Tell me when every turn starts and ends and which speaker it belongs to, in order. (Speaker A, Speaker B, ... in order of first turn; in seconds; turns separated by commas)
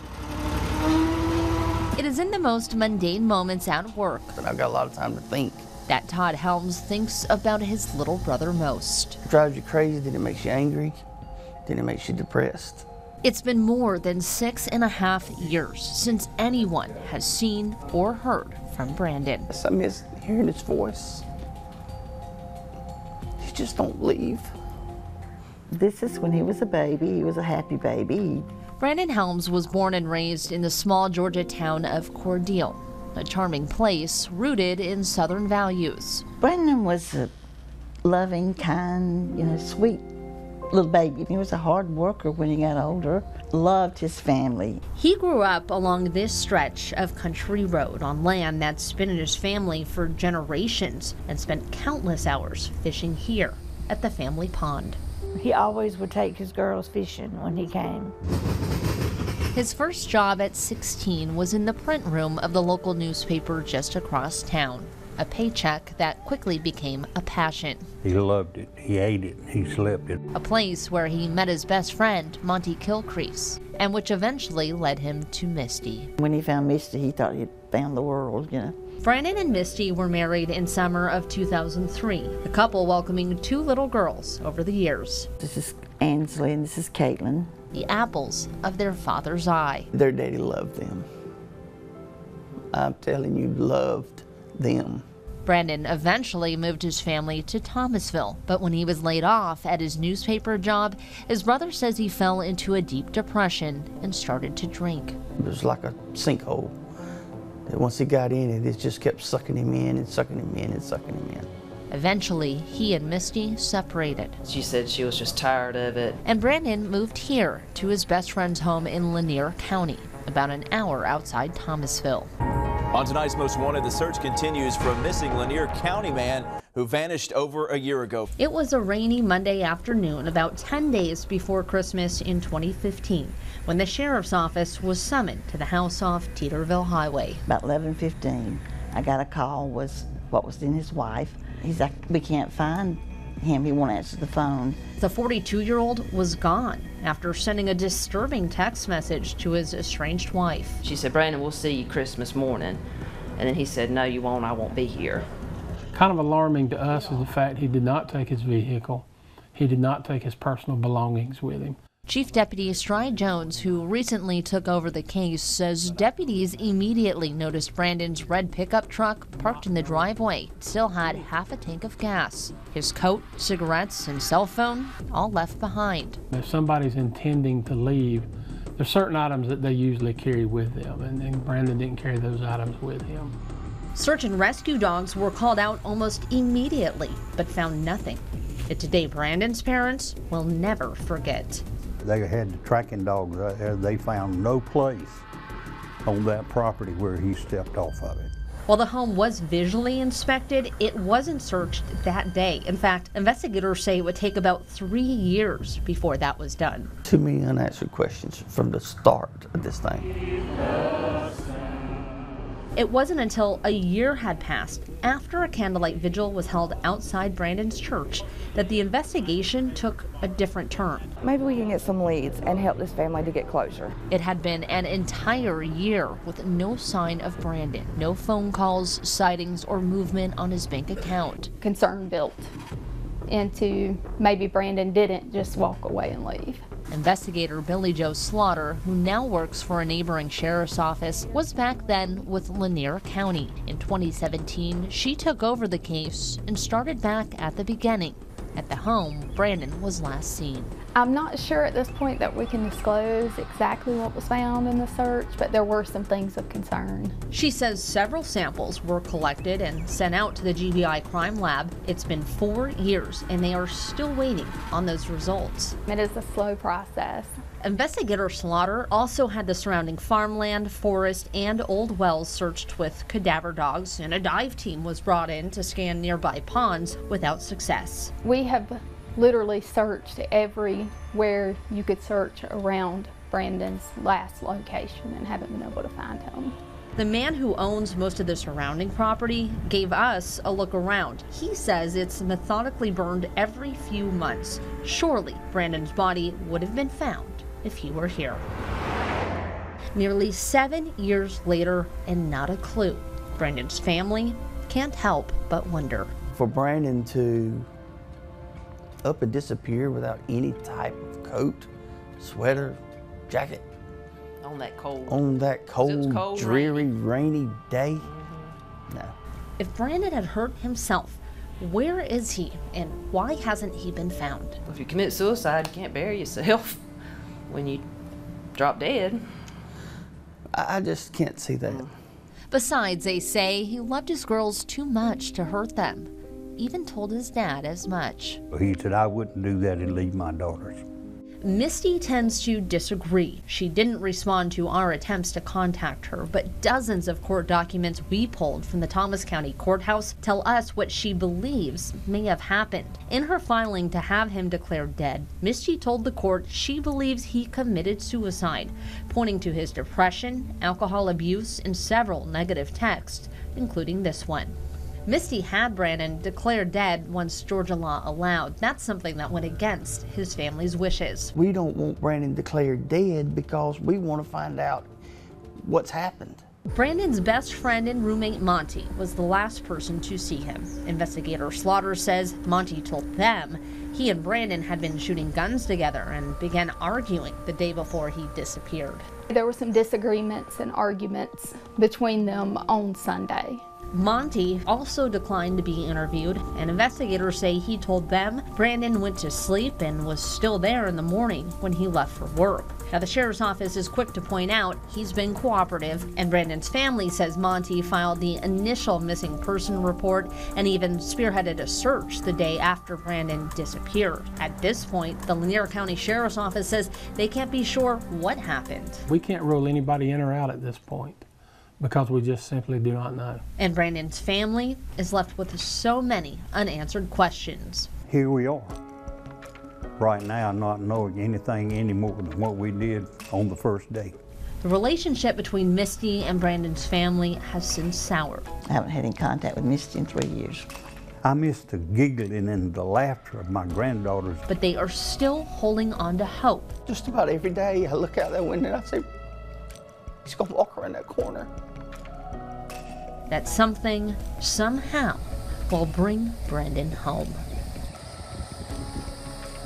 Speaker A: 2.0-4.4, Speaker B: 4.4-5.7, Speaker A: 5.9-9.2, Speaker B: 9.2-11.0, Speaker B: 11.7-12.9, Speaker A: 13.2-19.5, Speaker B: 19.5-21.2, Speaker B: 23.4-24.5, Speaker C: 25.7-28.5, Speaker A: 28.8-36.2, Speaker C: 36.4-37.3, Speaker C: 38.0-40.1, Speaker C: 40.7-44.8, Speaker A: 45.0-55.0, Speaker D: 55.4-58.1, Speaker A: 59.5-67.9, Speaker E: 68.0-70.2, Speaker A: 70.3-76.1, Speaker C: 76.2-78.7, Speaker A: 79.0-85.3, Speaker C: 85.4-87.5, Speaker A: 87.7-89.9, Speaker B: 89.9-91.0, Speaker B: 92.7-95.0, Speaker A: 95.5-105.2, Speaker B: 105.4-106.8, Speaker B: 107.7-111.5, Speaker A: 111.9-114.4, Speaker F: 114.5-116.2, Speaker A: 116.2-122.3, Speaker G: 122.9-128.3, Speaker A: 128.4-137.4, Speaker C: 137.5-144.8, Speaker A: 145.0-150.8, Speaker F: 150.8-152.8, Speaker F: 153.4-155.3, Speaker H: 155.9-161.8, Speaker A: 162.1-176.2, Speaker H: 176.3-183.3, Speaker A: 183.9-191.6, Speaker E: 192.0-195.2, Speaker E: 196.1-198.3, Speaker A: 198.7-206.9, Speaker B: 207.1-210.1, Speaker A: 212.8-221.1, Speaker I: 221.2-224.0, Speaker A: 224.1-231.5, Speaker J: 231.6-232.5, Speaker J: 233.3-236.7, Speaker A: 236.9-250.7, Speaker J: 250.9-257.2, Speaker A: 257.3-265.8, Speaker J: 265.9-267.4, Speaker A: 267.6-278.1, Speaker J: 278.2-286.6, Speaker A: 286.9-298.4, Speaker A: 299.9-306.1, Speaker B: 306.4-307.7, Speaker B: 309.0-311.7, Speaker B: 312.2-313.7, Speaker F: 314.4-316.9, Speaker B: 315.1-318.1, Speaker F: 318.0-318.5, Speaker B: 318.9-319.1, Speaker A: 319.6-324.6, Speaker F: 324.7-326.8, Speaker F: 327.5-327.8, Speaker F: 328.6-329.2, Speaker B: 330.5-331.9, Speaker A: 332.5-338.4, Speaker E: 338.5-340.8, Speaker A: 341.4-364.6, Speaker A: 365.1-371.3, Speaker B: 371.4-374.9, Speaker B: 375.6-376.4, Speaker A: 376.7-389.1, Speaker J: 389.3-393.6, Speaker A: 393.9-419.1, Speaker H: 419.1-421.2, Speaker H: 421.8-423.4, Speaker A: 423.6-427.9, Speaker E: 428.1-428.8, Speaker E: 430.0-434.2, Speaker A: 434.6-438.4, Speaker C: 438.7-440.7, Speaker E: 441.2-444.4, Speaker A: 444.5-446.7, Speaker B: 446.9-449.1, Speaker B: 450.2-451.5, Speaker A: 453.3-457.4